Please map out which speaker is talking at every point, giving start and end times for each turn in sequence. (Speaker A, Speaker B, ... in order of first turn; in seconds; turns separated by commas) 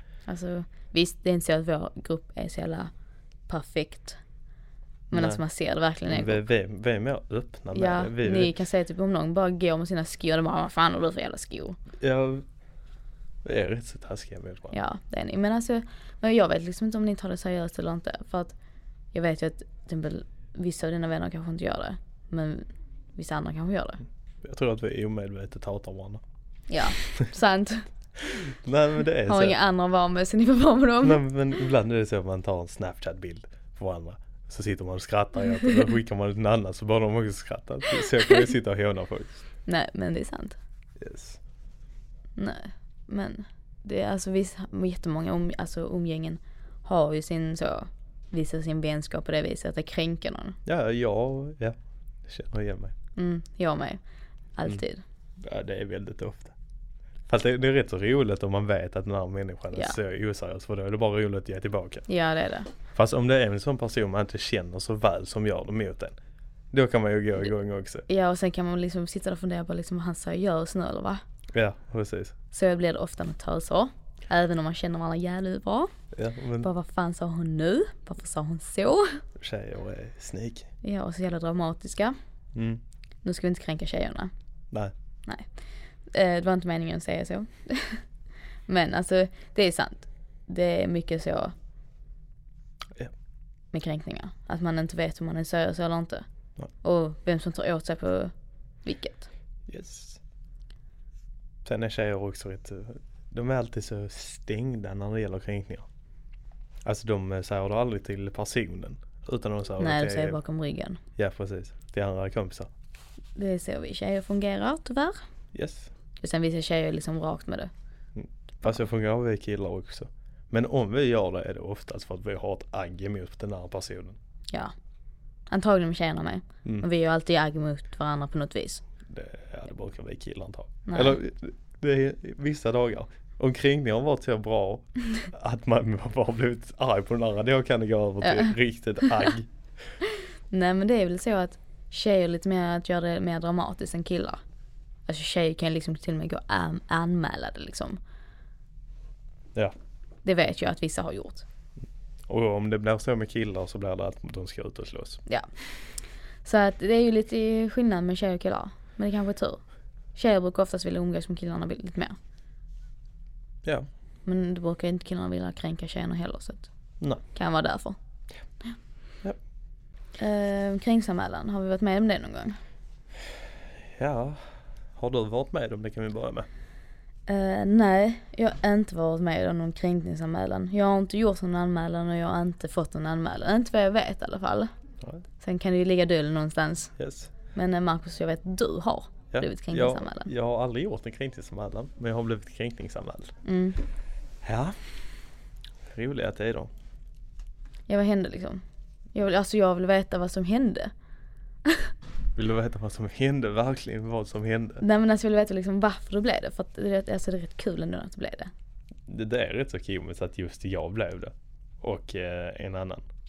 Speaker A: 0.3-2.9, Speaker A: 3.5-4.2, Speaker A: 5.1-6.4, Speaker B: 5.1-5.4, Speaker B: 6.1-8.5, Speaker A: 7.7-11.8, Speaker B: 12.0-12.4, Speaker B: 13.4-14.8, Speaker A: 14.7-18.5, Speaker A: 19.1-24.0, Speaker B: 24.4-26.2, Speaker A: 26.7-27.9, Speaker B: 28.3-29.6, Speaker A: 29.2-31.2, Speaker B: 31.0-39.4, Speaker A: 38.1-38.3, Speaker A: 39.6-40.6, Speaker B: 41.0-41.4, Speaker A: 42.4-50.6, Speaker B: 50.6-52.9, Speaker A: 53.1-54.0, Speaker A: 54.5-55.0, Speaker B: 55.4-56.5, Speaker B: 57.3-62.0, Speaker A: 62.1-62.7, Speaker B: 62.9-66.2, Speaker B: 66.7-68.0, Speaker A: 68.1-71.2, Speaker B: 71.5-72.3, Speaker A: 72.5-75.9, Speaker B: 76.1-76.7, Speaker A: 76.6-79.2, Speaker B: 79.4-80.7, Speaker A: 80.8-82.2, Speaker B: 82.5-82.8, Speaker A: 83.2-84.3, Speaker A: 86.1-88.0, Speaker A: 88.7-91.5, Speaker A: 93.7-96.2, Speaker A: 96.8-98.3, Speaker A: 98.8-99.3, Speaker B: 99.7-100.2, Speaker B: 101.6-105.9, Speaker B: 106.8-110.4, Speaker A: 109.8-111.0, Speaker B: 111.2-112.7, Speaker A: 113.3-115.2, Speaker B: 115.5-115.9, Speaker A: 116.2-117.7, Speaker B: 118.2-124.2, Speaker A: 125.5-128.8, Speaker B: 129.1-139.5, Speaker A: 130.9-131.2, Speaker A: 138.2-139.1, Speaker A: 140.5-144.4, Speaker A: 145.1-148.0, Speaker A: 150.2-151.4, Speaker B: 152.3-155.2, Speaker A: 156.4-159.6, Speaker A: 160.1-162.2, Speaker A: 164.2-166.7, Speaker A: 167.3-168.0, Speaker A: 170.2-172.6, Speaker B: 173.9-176.5, Speaker A: 177.3-184.7, Speaker A: 185.4-186.9, Speaker B: 187.0-187.3, Speaker A: 187.5-190.3, Speaker B: 189.3-193.3, Speaker A: 193.4-193.8, Speaker B: 194.4-194.9, Speaker B: 195.9-196.7, Speaker A: 197.9-198.6, Speaker A: 199.1-200.9, Speaker A: 201.7-201.9, Speaker B: 202.3-204.8, Speaker A: 204.8-208.5, Speaker B: 209.1-213.0